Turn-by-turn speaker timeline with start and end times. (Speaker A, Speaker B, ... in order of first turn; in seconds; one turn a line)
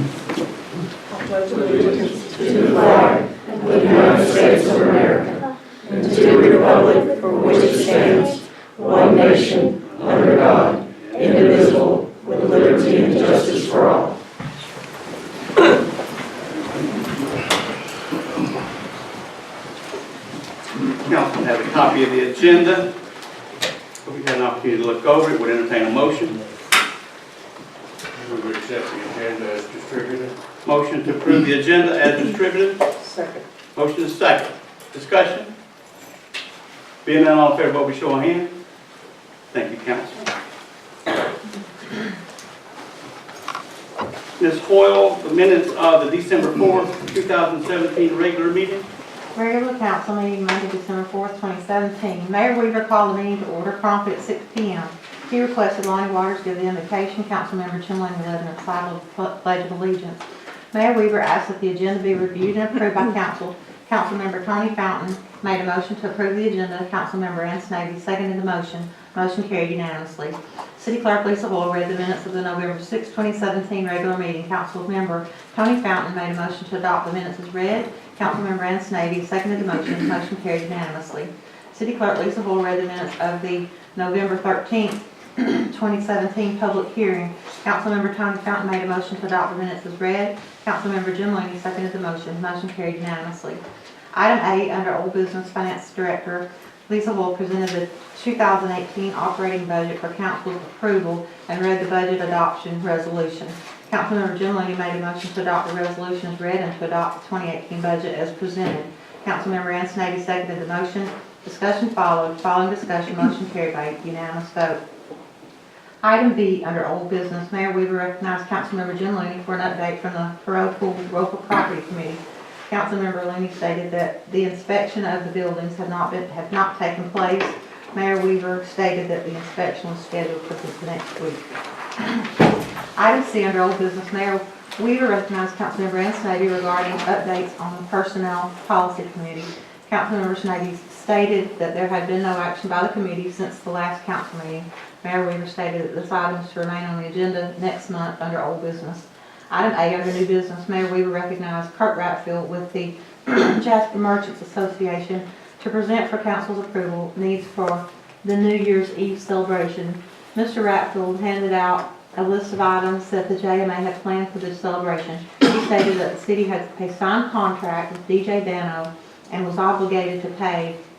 Speaker A: 1.1-5.0
Speaker A: 5.9-10.6
Speaker B: 21.1-22.9
Speaker B: 24.1-26.4
Speaker C: 28.2-30.3
Speaker B: 30.6-32.8
Speaker A: 33.0-33.5
Speaker B: 33.8-35.5
Speaker B: 37.0-38.5
Speaker B: 39.5-40.2
Speaker B: 44.4-48.9
Speaker D: 49.3-93.6
Speaker D: 94.1-114.8
Speaker D: 116.0-131.4
Speaker D: 132.0-132.4
Speaker D: 133.0-170.8